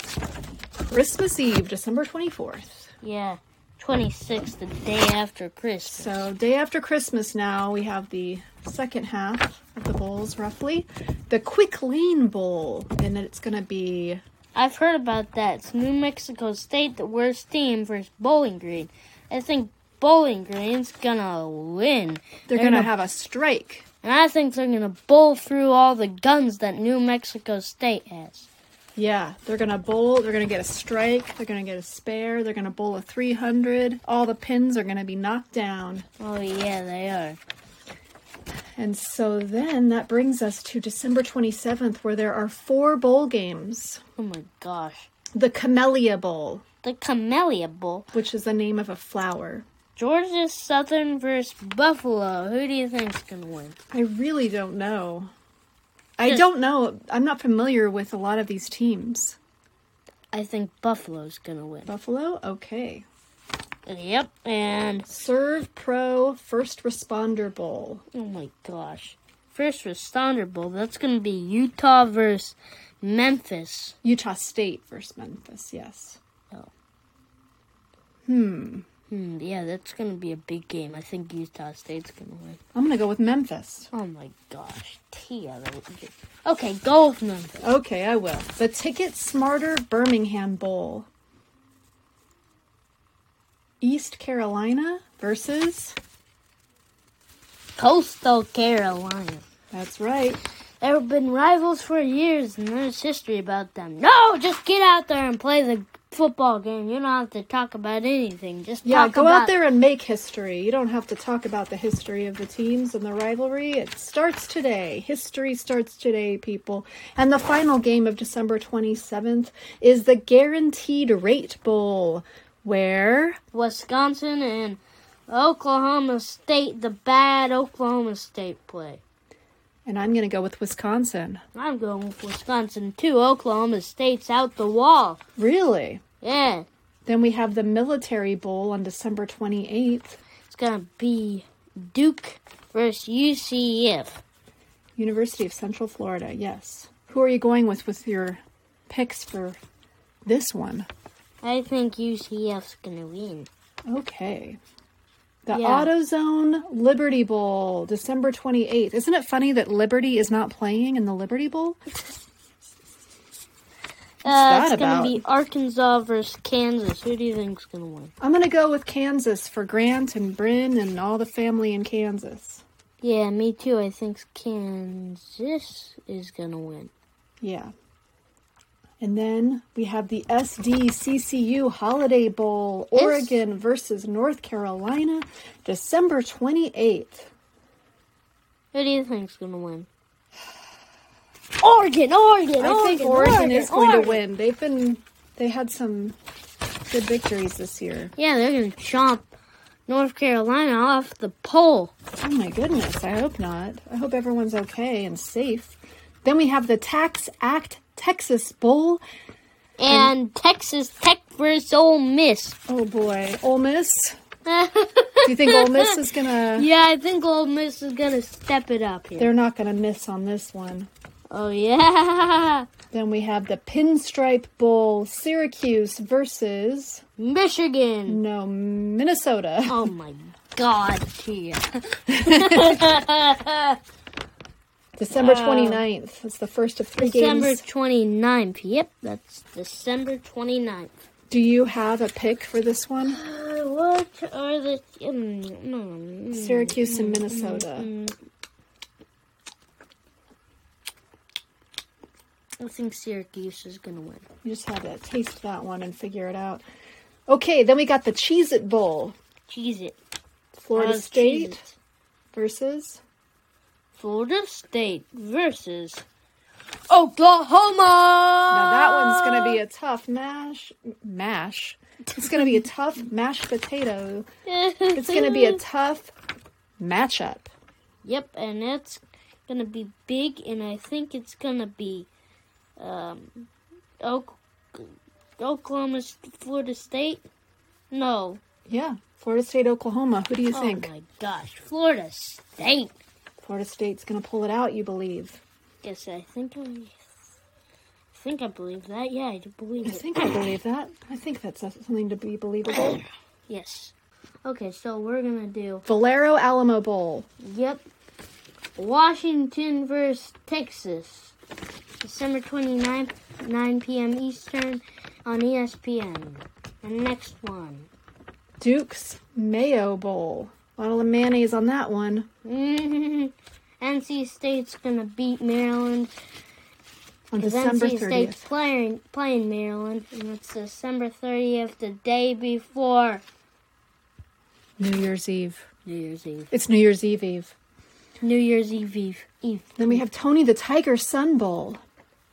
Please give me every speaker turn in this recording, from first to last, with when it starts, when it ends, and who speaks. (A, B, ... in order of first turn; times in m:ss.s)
0:00.9-0:02.9 A
0:03.0-0:06.3 B
0:05.8-0:14.2 A
0:14.5-0:22.9 B
0:22.5-0:23.8 A
0:24.0-0:28.5 B
0:29.0-0:36.1 A
0:36.2-0:37.4 B
0:38.8-0:44.0 A
0:44.2-0:45.1 B
0:45.3-0:46.6 A
0:46.8-0:48.1 B
0:48.1-0:49.6 A
0:50.0-0:53.8 B
0:53.9-0:55.3 A
0:56.2-0:59.4 A
1:00.3-1:01.9 B
1:01.9-1:03.0 A
1:03.8-1:05.1 B
1:05.0-1:08.0 A
1:08.1-1:14.0 B
1:14.0-1:16.2 A
1:18.3-1:18.8 A
1:19.1-1:22.6 B
1:22.7-1:23.9 A
1:23.9-1:27.6 B
1:27.6-1:31.1 A
1:33.8-1:36.0 A
1:37.8-1:39.4 B
1:39.7-1:40.4 A
1:40.8-1:49.6 B
1:48.8-2:03.4 A
2:03.5-2:09.0 B
2:09.8-2:11.4 A
2:11.5-2:15.2 B
2:15.4-2:16.0 A
2:16.2-2:16.7 B
2:17.0-2:20.2 A
2:20.5-2:24.2 B
2:25.0-2:29.6 A
2:30.2-2:30.9 A
2:31.4-2:33.5 B
2:33.9-2:34.6 A
2:35.4-2:41.8 A
2:35.5-2:35.9 B
2:44.2-2:45.2 A
2:44.2-2:48.1 B
2:48.2-2:52.6 A
2:53.0-2:56.9 B
2:57.4-2:57.7 A
2:59.0-3:07.3 A
3:02.9-3:03.4 B
3:08.7-3:09.9 B
3:11.6-3:14.2 B
3:12.6-3:16.2 A
3:16.9-3:18.1 A
3:18.2-3:19.3 B
3:19.9-3:21.9 B
3:22.2-3:29.0 A
3:29.8-3:32.6 B
3:29.9-3:30.1 A
3:32.7-3:34.2 A
3:34.4-3:39.3 B
3:35.2-3:36.7 A
3:39.2-3:40.9 A
3:41.3-3:42.7 B
3:42.9-3:47.0 A
3:47.2-3:48.2 B
3:48.1-3:49.9 A
3:49.7-3:53.8 B
3:52.1-3:52.8 A
3:55.0-3:57.6 A
3:55.1-3:55.8 B
3:57.0-4:00.9 B
4:01.3-4:03.2 A
4:03.0-4:08.1 B
4:06.3-4:07.9 A
4:12.6-4:14.2 B
4:14.4-4:16.6 A
4:17.3-4:19.1 A
4:19.5-4:20.0 B
4:20.6-4:21.6 A
4:20.7-4:21.8 B
4:22.3-4:23.0 A
4:23.9-4:26.0 B
4:26.9-4:29.6 B
4:28.5-4:34.2 A
4:32.2-4:32.6 B
4:34.4-4:35.6 B
4:34.9-4:36.1 A
4:36.8-4:37.5 A
4:38.0-4:42.1 B
4:42.8-4:43.5 B
4:44.0-4:47.2 B
4:47.9-4:48.4 B
4:48.7-4:50.9 A
4:50.5-4:52.9 B
4:53.4-4:55.4 A
4:55.8-4:57.2 B
4:58.1-5:00.1 B
4:59.8-5:03.0 A
5:03.5-5:03.9 B
5:04.4-5:05.8 B
5:05.8-5:07.3 A
5:07.4-5:07.8 B
5:08.8-5:11.3 B
5:12.0-5:17.9 B
5:18.6-5:22.3 A
5:22.4-5:26.1 B
5:27.3-5:28.4 A
5:27.4-5:33.2 B
5:34.8-5:35.6 A
5:35.8-5:36.5 B
5:36.5-5:37.5 A
5:38.2-5:40.0 B
5:39.8-5:41.8 A